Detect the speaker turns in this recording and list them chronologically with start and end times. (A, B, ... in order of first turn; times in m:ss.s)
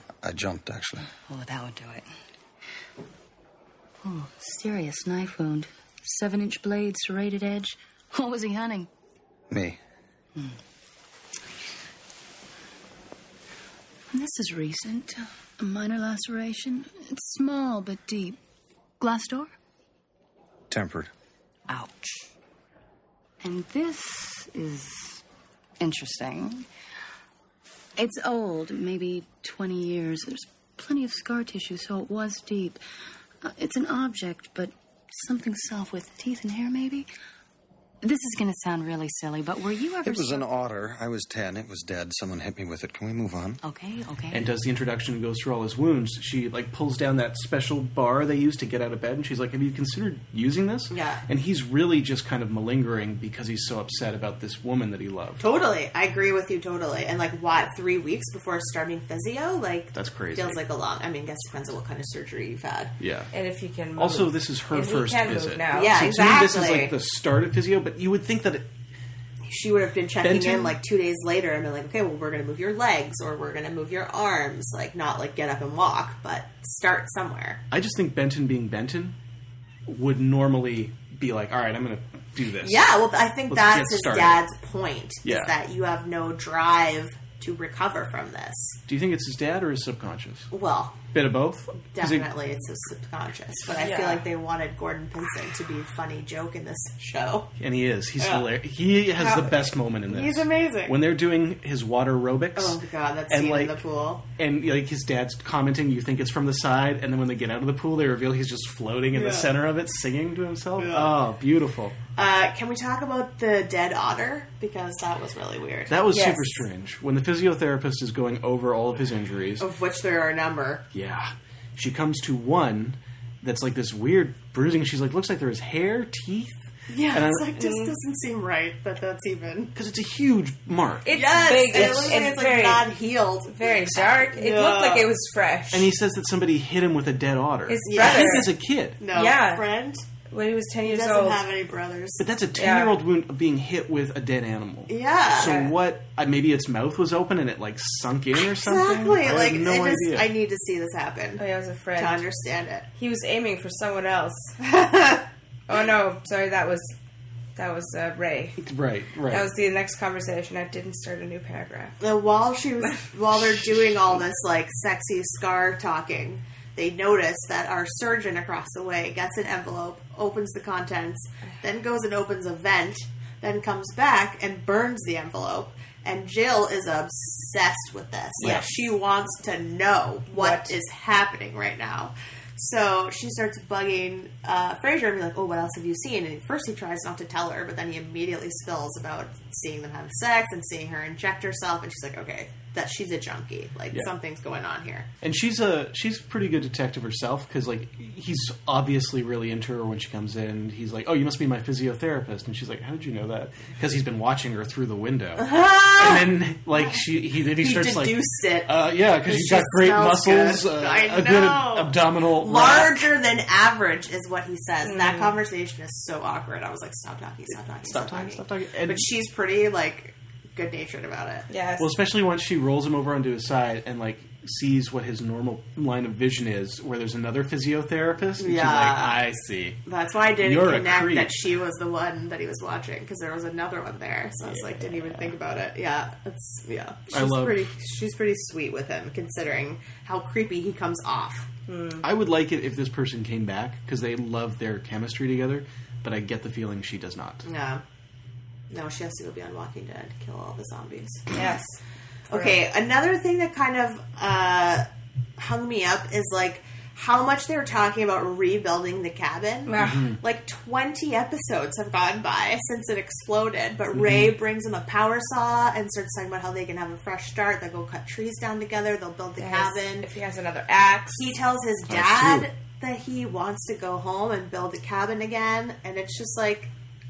0:00.2-0:01.1 A
0:01.2-0:02.1 B
0:04.0-0:08.9 B
0:09.5-0:09.8 A
0:14.1-0:18.4 B
0:19.0-0:19.5 B
0:20.7-0:21.1 A
0:21.7-0:22.2 B
0:23.4-0:25.2 B
0:25.8-0:26.6 B
0:28.0-0:32.8 B
0:33.4-0:37.1 B
0:38.0-0:40.4 B
0:40.0-0:43.6 A
0:43.6-0:44.5 B
0:44.3-0:55.4 C
0:50.9-0:51.2 D
0:55.4-1:02.9 D
0:59.9-1:00.6 C
1:03.0-1:03.3 C
1:03.3-1:05.9 E
1:04.0-1:08.7 C
1:05.7-1:06.9 D
1:09.4-1:17.6 D
1:10.2-1:10.8 C
1:17.7-1:19.2 C
1:19.9-1:22.8 C
1:22.6-1:28.8 D
1:23.5-1:24.4 C
1:25.2-1:25.5 C
1:28.9-1:30.5 C
1:30.5-1:31.0 D
1:31.1-1:32.3 C
1:31.9-1:37.5 D
1:33.7-1:34.2 E
1:37.6-1:43.8 C
1:38.2-1:38.5 D
1:39.2-1:39.6 E
1:40.1-1:41.0 D
1:42.6-1:44.2 D
1:44.4-1:52.0 C
1:49.1-1:49.5 D
1:50.8-1:51.1 D
1:52.2-1:55.9 D
1:55.9-1:59.7 C
1:56.1-1:56.6 E
1:59.6-2:00.8 D
2:00.9-2:07.5 C
2:06.9-2:09.7 D
2:07.6-2:07.9 E
2:09.7-2:12.2 C
2:11.0-2:12.8 E
2:11.1-2:15.1 D
2:13.5-2:15.9 E
2:15.7-2:19.0 C
2:17.7-2:18.5 E
2:17.9-2:18.5 D
2:19.0-2:20.0 D
2:19.1-2:19.6 E
2:20.3-2:21.4 E
2:20.8-2:22.2 D
2:22.2-2:30.3 C
2:22.6-2:22.9 E
2:24.9-2:25.6 D
2:25.4-2:25.7 E
2:28.4-2:31.4 D
2:31.4-2:32.2 E
2:31.9-2:32.8 D
2:33.0-2:34.5 E
2:34.6-2:35.2 D
2:35.7-2:36.9 E
2:37.6-2:38.6 E
2:38.6-2:39.5 C
2:39.3-2:42.0 E
2:42.0-3:15.1 D
3:00.3-3:00.7 E
3:15.2-3:33.1 C
3:25.4-3:28.7 D
3:29.2-3:41.5 D
3:34.8-3:35.4 E
3:37.8-3:39.1 C
3:41.5-3:41.9 E
3:41.8-3:49.8 C
3:48.4-3:49.2 D
3:49.8-4:01.5 D
3:50.4-3:51.3 C
3:54.4-3:55.3 C
3:57.1-3:57.7 C
4:01.7-4:02.0 E
4:02.0-4:07.4 C
4:07.4-4:07.8 D
4:08.7-4:11.3 D
4:11.3-4:11.8 E
4:12.3-4:14.8 D
4:12.3-4:12.6 E
4:15.4-4:30.1 D
4:19.7-4:20.0 E
4:19.8-4:20.2 C
4:23.9-4:24.3 C
4:29.4-4:31.3 E
4:31.1-4:36.7 D
4:31.9-4:32.5 C